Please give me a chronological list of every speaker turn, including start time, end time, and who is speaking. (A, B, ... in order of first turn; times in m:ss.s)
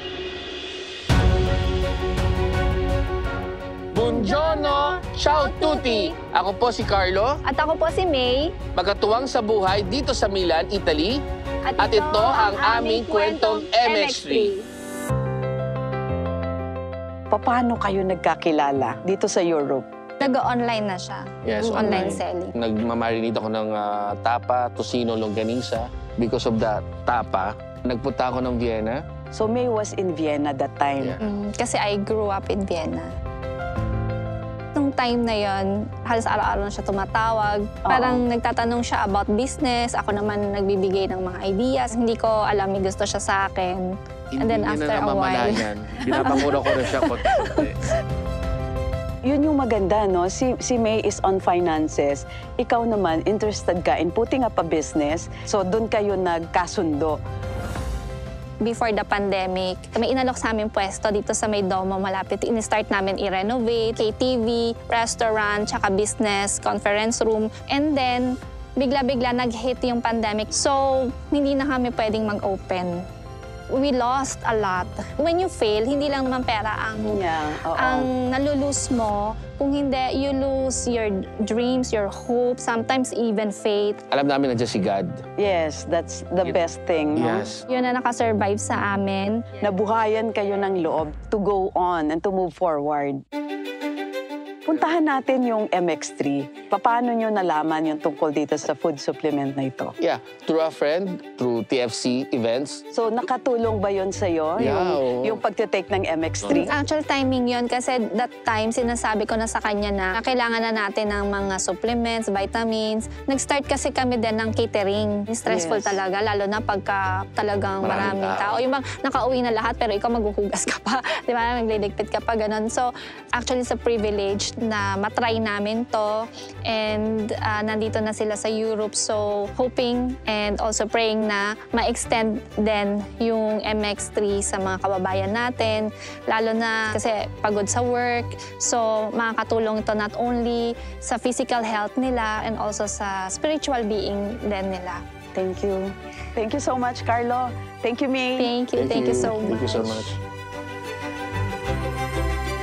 0:03.9-0:07.4 A
0:04.0-0:06.2 B
0:07.4-0:08.5 B
0:08.8-0:11.2 A
0:11.7-0:14.7 B
0:11.8-0:14.5 A
0:17.3-0:19.8 C
0:20.2-0:22.5 B
0:21.4-0:29.0 A
0:21.7-0:22.0 C
0:29.3-0:31.2 C
0:31.2-0:33.1 B
0:34.8-0:47.7 B
0:37.8-0:38.2 C
0:44.3-0:47.8 A
0:49.2-0:57.2 C
0:58.6-1:13.0 B
1:13.7-1:17.2 B
1:17.1-1:18.1 C
1:17.8-1:24.0 B
1:24.1-1:25.2 A
1:25.4-1:27.5 C
1:27.2-1:27.6 A
1:27.7-1:29.5 B
1:29.6-1:33.2 C
1:34.6-1:40.0 C
1:40.0-1:42.8 A
1:42.9-1:46.7 C
1:44.6-1:45.4 A
1:46.5-2:25.0 B
1:55.5-1:56.0 C
1:57.8-1:58.6 A
2:25.4-2:28.5 C
2:28.4-2:30.1 B
2:28.8-2:30.2 A